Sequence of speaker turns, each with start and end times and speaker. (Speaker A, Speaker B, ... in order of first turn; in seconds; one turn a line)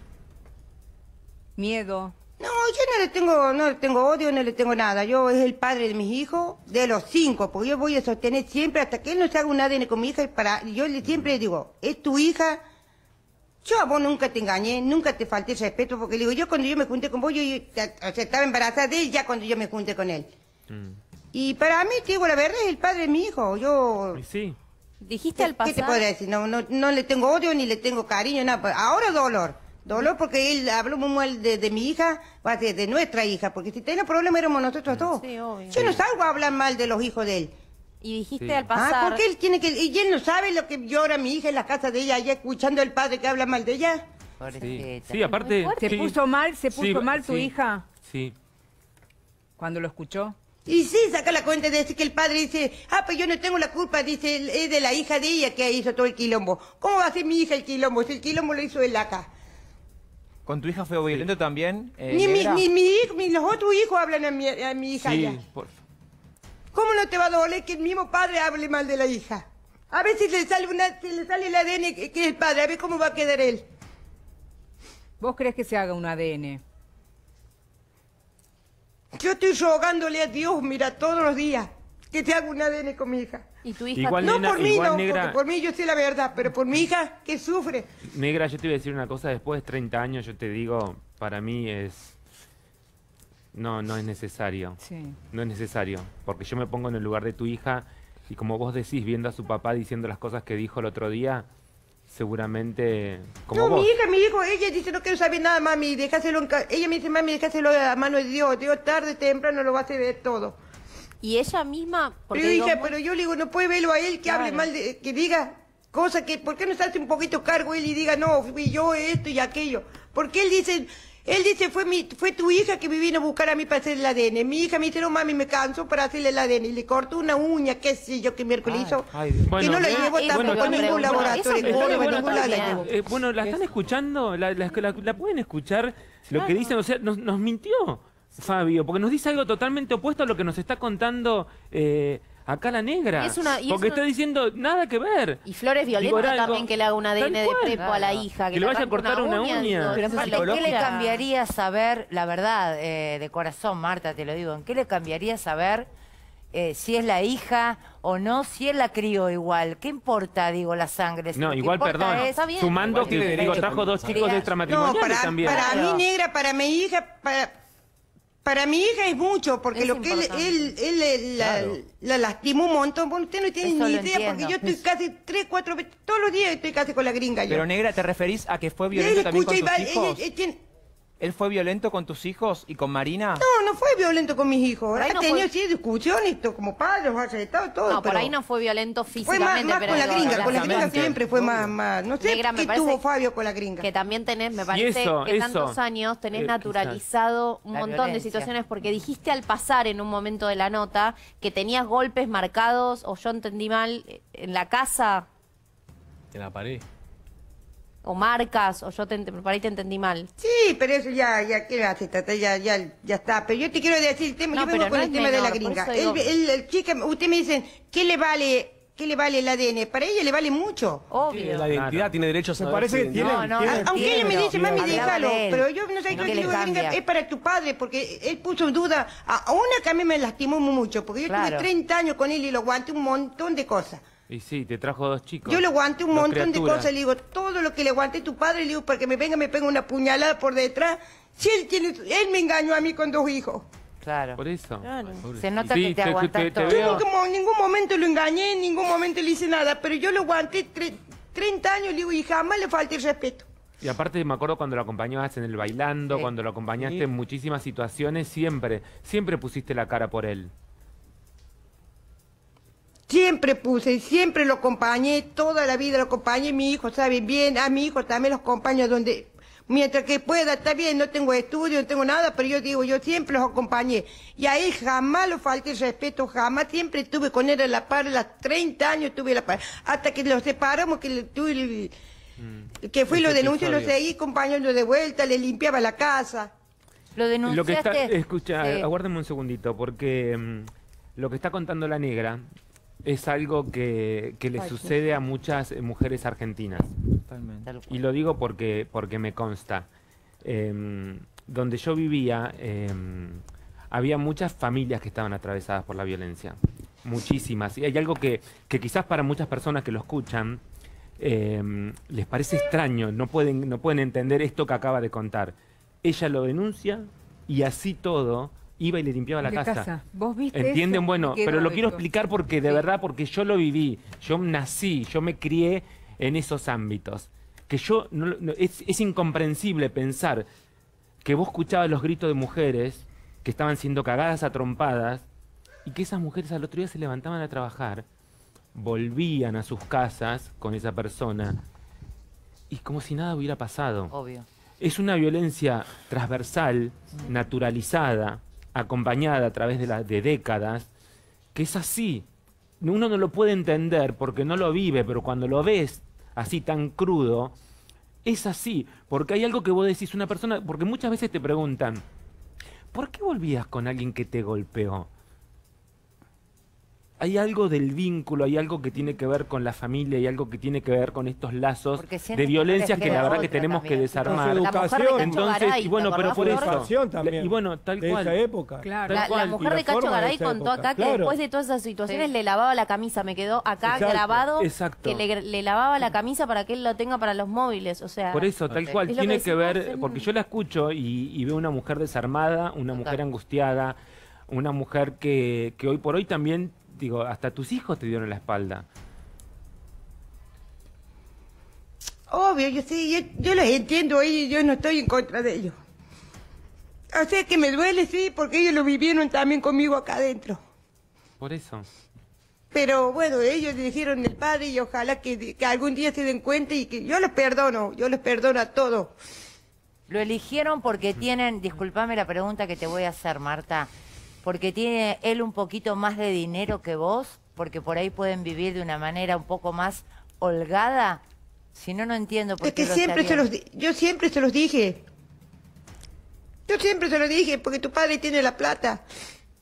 Speaker A: 1.6-2.1
Speaker B: 2.4-12.6
Speaker C: 11.0-11.3
Speaker B: 13.6-20.2
Speaker C: 20.7-21.0
Speaker B: 21.3-24.2
Speaker C: 24.1-24.6
Speaker D: 25.0-26.1
Speaker B: 25.4-37.5
Speaker D: 35.1-35.9
Speaker C: 35.7-36.0
Speaker D: 38.0-39.2
Speaker C: 38.4-38.7
Speaker B: 38.7-44.0
Speaker E: 44.4-45.2
Speaker C: 44.6-46.2
Speaker D: 45.2-46.0
Speaker A: 45.8-47.8
Speaker C: 46.7-48.3
Speaker A: 49.6-50.3
Speaker B: 50.6-59.3
Speaker F: 60.5-62.6
Speaker B: 62.1-65.4
Speaker C: 65.0-65.8
Speaker B: 66.7-73.6
Speaker A: 75.2-76.6
Speaker B: 79.1-83.5
Speaker D: 83.6-84.4
Speaker C: 83.9-85.4
Speaker B: 84.2-87.9
Speaker C: 88.0-92.2
Speaker C: 93.5-94.8
Speaker A: 94.8-95.2
Speaker C: 95.3-101.5
Speaker C: 102.1-103.9
Speaker B: 103.5-110.6
Speaker D: 111.2-113.0
Speaker B: 112.3-132.8
Speaker D: 114.2-114.7
Speaker F: 128.9-129.9
Speaker C: 129.4-150.1
Speaker D: 129.8-132.9
Speaker F: 131.0-131.4
Speaker D: 136.3-136.7
Speaker D: 143.1-144.0
Speaker D: 145.4-151.2
Speaker E: 147.7-148.1
Speaker E: 149.9-155.9
Speaker F: 149.9-150.9
Speaker E: 156.5-162.4
Speaker C: 161.3-165.7
Speaker D: 161.8-163.4
Speaker F: 162.8-164.1
Speaker E: 163.9-164.5
Speaker D: 164.1-164.4
Speaker B: 164.6-167.5
Speaker E: 165.4-166.0
Speaker D: 165.6-166.0
Speaker B: 168.4-177.7
Speaker D: 169.7-170.7
Speaker F: 171.4-171.8
Speaker E: 173.6-174.8
Speaker F: 177.5-180.2
Speaker B: 178.9-180.6
Speaker F: 181.2-183.4
Speaker B: 183.4-188.3
Speaker D: 184.9-185.5
Speaker D: 187.8-191.2
Speaker B: 189.2-193.9
Speaker F: 189.8-191.8
Speaker D: 192.2-193.0
Speaker D: 193.8-205.2
Speaker C: 194.7-195.8
Speaker C: 196.3-197.0
Speaker E: 197.7-198.5
Speaker G: 206.3-206.8
Speaker D: 208.0-210.3
Speaker B: 210.4-221.1
Speaker D: 214.5-216.3
Speaker E: 221.1-221.7
Speaker G: 221.2-223.5
Speaker C: 221.7-223.1
Speaker H: 222.7-224.9
Speaker E: 223.1-227.0
Speaker B: 223.6-234.0
Speaker E: 231.3-231.7
Speaker C: 234.3-236.9
Speaker B: 235.4-243.7
Speaker E: 244.0-244.4
Speaker C: 244.3-244.9
Speaker G: 245.1-245.7
Speaker E: 245.2-247.0
Speaker C: 245.6-247.0
Speaker B: 246.7-253.4
Speaker C: 253.8-260.5
Speaker B: 263.1-281.9
Speaker C: 282.4-283.9
Speaker B: 282.8-286.5
Speaker E: 287.1-288.9
Speaker C: 287.4-292.4
Speaker C: 293.0-296.9
Speaker F: 297.3-297.7
Speaker E: 297.6-298.0
Speaker C: 297.9-299.9
Speaker C: 300.4-310.6
Speaker C: 311.2-319.9
Speaker A: 319.4-322.1
Speaker C: 320.5-330.5
Speaker C: 331.2-335.3
Speaker C: 335.9-338.0
Speaker C: 338.7-341.6
Speaker C: 342.7-344.1
Speaker E: 344.1-344.5
Speaker C: 344.8-350.9
Speaker C: 351.5-352.2
Speaker C: 352.8-357.5
Speaker C: 358.2-362.0
Speaker C: 362.9-365.1
Speaker C: 367.2-378.4
Speaker E: 371.9-374.6
Speaker D: 373.0-373.5
Speaker H: 374.2-375.4
Speaker D: 374.6-376.8
Speaker H: 376.2-379.0
Speaker A: 378.8-379.2
Speaker C: 379.0-379.6
Speaker D: 379.1-388.6
Speaker H: 379.6-381.4
Speaker H: 383.8-384.4
Speaker C: 384.5-385.2
Speaker C: 388.3-394.0
Speaker E: 388.7-389.1
Speaker D: 389.1-390.3
Speaker E: 392.9-393.2
Speaker C: 394.5-398.9
Speaker B: 402.3-405.7
Speaker B: 407.1-410.6
Speaker C: 411.4-411.9
Speaker B: 412.7-419.1
Speaker E: 420.1-423.9
Speaker E: 424.4-431.2
Speaker E: 431.7-433.5
Speaker B: 432.6-435.0
Speaker B: 436.7-439.0